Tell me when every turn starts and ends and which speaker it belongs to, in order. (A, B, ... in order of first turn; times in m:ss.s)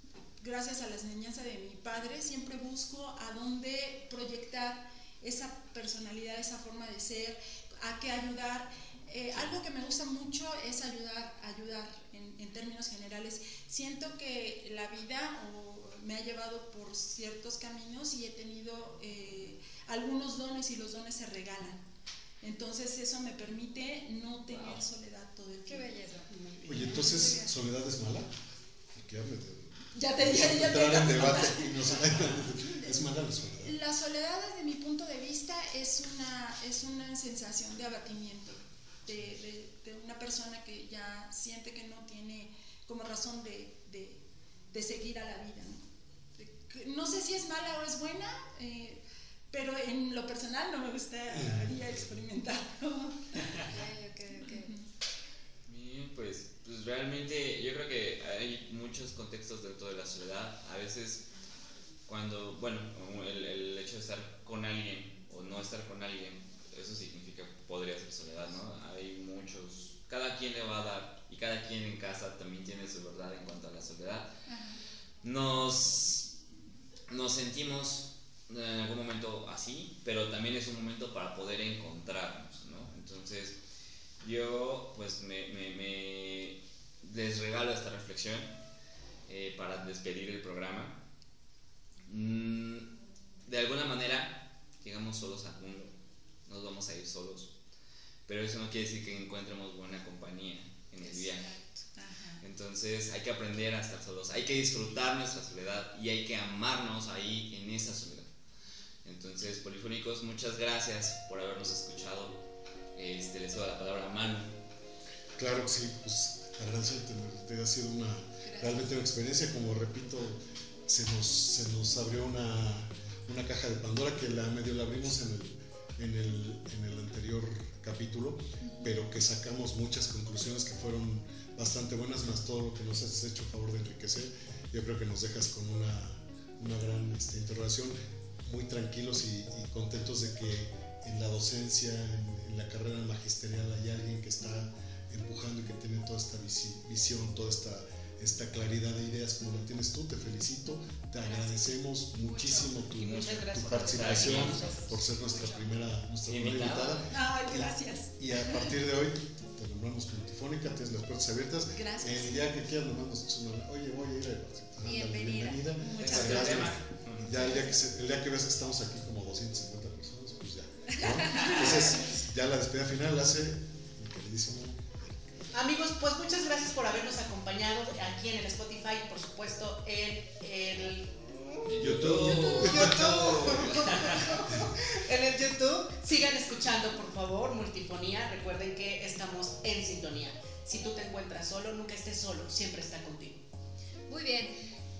0:00.4-0:21.8 A
0:22.4-0:26.0 A
0:25.7-0:27.5 B
0:26.6-0:28.3 C
0:28.9-0:33.8 C
0:29.9-0:31.9 A
0:32.6-0:33.0 A
0:33.6-0:44.2 A
0:44.7-0:45.8 A
0:46.4-0:53.7 A
0:51.3-0:52.1 C
0:53.6-0:54.8 B
0:54.4-0:54.8 A
0:55.6-1:01.2 D
1:02.1-1:14.3 D
1:14.5-1:14.8 A
1:15.2-1:16.3 D
1:17.1-1:23.6 D
1:24.2-1:28.5 D
1:29.3-1:31.0 D
1:32.0-1:32.9 D
1:33.4-1:35.9 D
1:36.4-1:37.5 D
1:38.3-1:41.5 D
1:41.9-1:42.4 A
1:42.4-1:48.3 D
1:49.0-1:52.4 D
1:53.0-1:54.6 D
1:55.4-2:55.5 C
1:58.5-1:58.8 B
2:31.2-2:32.8 B
2:32.9-2:34.6 D
2:32.9-2:35.0 E
2:35.2-2:35.8 B
2:36.2-2:37.1 D
2:37.1-2:38.6 A
2:41.7-2:42.5 A
2:44.8-2:46.6 B
2:45.8-2:46.8 A
2:46.0-2:47.6 D
2:47.4-2:47.7 A
2:51.2-2:51.9 A
2:55.5-3:13.4 E
3:01.6-3:04.5 D
3:01.8-3:03.5 C
3:14.1-3:14.5 B